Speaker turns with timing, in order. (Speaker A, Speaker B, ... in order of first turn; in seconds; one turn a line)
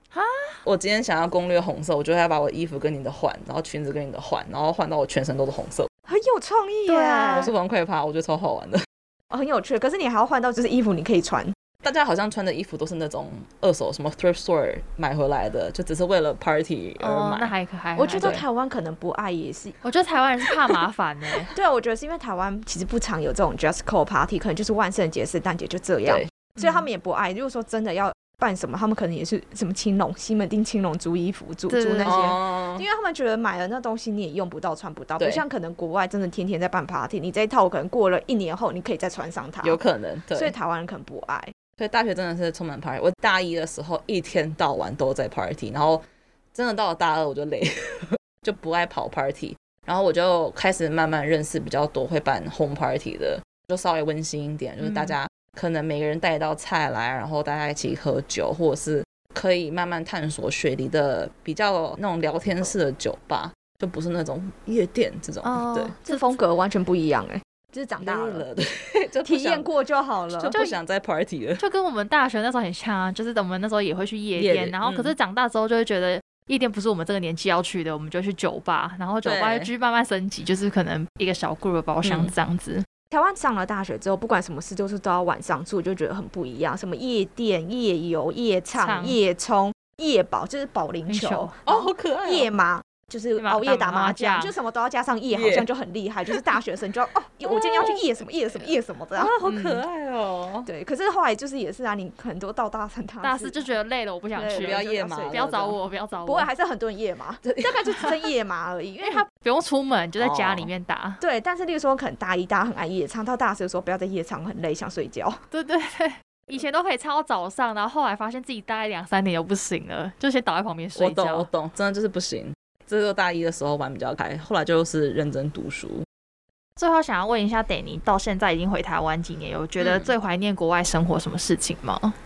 Speaker A: 0.1-0.6
Speaker B: 0.6-5.9
Speaker C: 6.0-7.5
Speaker A: 6.8-7.5
Speaker B: 7.3-8.8
Speaker C: 9.3-11.5
Speaker B: 11.8-17.5
Speaker A: 17.0-18.4
Speaker C: 18.0-19.8
Speaker B: 18.1-18.4
Speaker A: 19.8-21.5
Speaker C: 21.5-39.8
Speaker A: 26.6-26.9
Speaker A: 31.7-32.3
Speaker B: 32.0-32.8
Speaker B: 35.2-35.4
Speaker B: 39.6-40.5
Speaker C: 40.3-41.5
Speaker B: 41.8-46.0
Speaker B: 46.5-65.9
Speaker A: 54.8-55.1
Speaker A: 65.4-66.3
Speaker C: 66.0-68.4
Speaker B: 68.0-69.7
Speaker C: 69.2-70.5
Speaker B: 70.4-71.6
Speaker A: 71.6-82.8
Speaker B: 74.4-75.1
Speaker B: 79.2-79.7
Speaker B: 82.0-82.3
Speaker C: 83.1-99.3
Speaker A: 88.8-89.2
Speaker A: 91.1-91.5
Speaker B: 91.7-92.5
Speaker A: 93.4-94.5
Speaker B: 95.3-95.7
Speaker B: 97.5-98.0
Speaker B: 99.1-100.7
Speaker A: 99.4-99.8
Speaker C: 100.7-103.7
Speaker A: 103.2-106.5
Speaker C: 104.3-105.5
Speaker B: 104.5-105.8
Speaker C: 106.2-109.2
Speaker B: 107.4-108.1
Speaker A: 109.0-111.2
Speaker B: 110.2-110.7
Speaker C: 111.2-115.4
Speaker A: 115.5-121.5
Speaker B: 120.9-126.0
Speaker A: 126.8-132.1
Speaker B: 129.8-130.1